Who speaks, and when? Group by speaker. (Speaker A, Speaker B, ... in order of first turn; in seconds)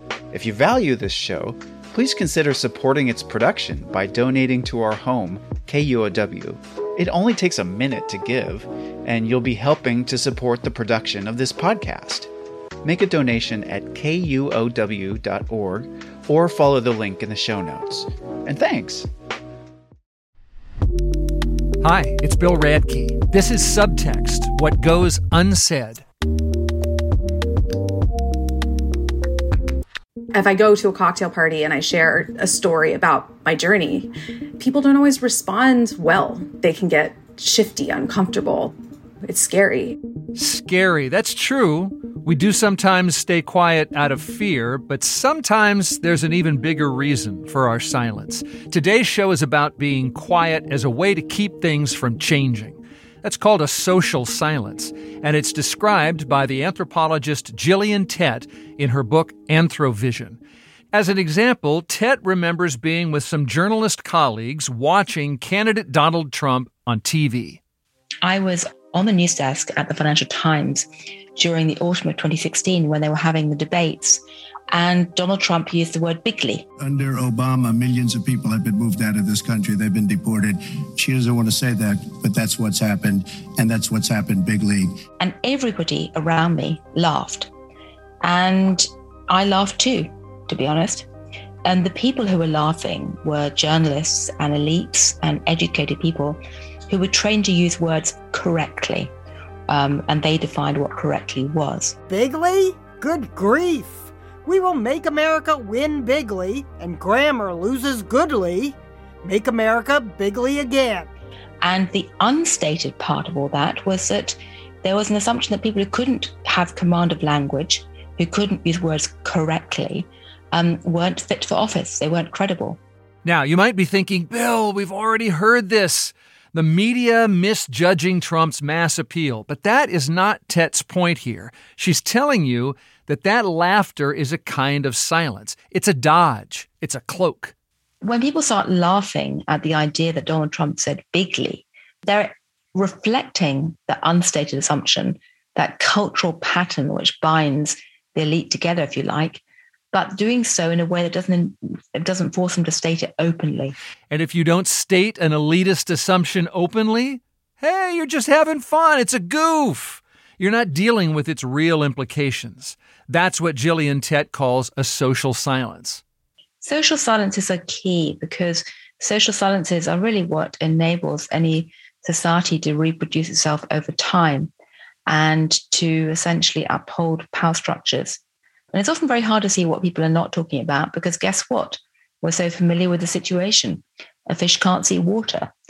Speaker A: 0.3-12.3, 12.8-19.1
Speaker B: 21.8-26.1, 40.4-60.4, 60.9-67.6, 123.2-137.5, 154.1-166.0
Speaker C: 30.3-40.0
Speaker D: 68.2-76.7, 85.2-87.5, 88.2-91.1, 91.7-99.1, 99.7-102.0, 111.6-122.8, 138.0-153.8, 166.6-174.5, 175.1-178.2, 178.7-185.5
Speaker E: 76.8-84.9
Speaker F: 102.1-111.1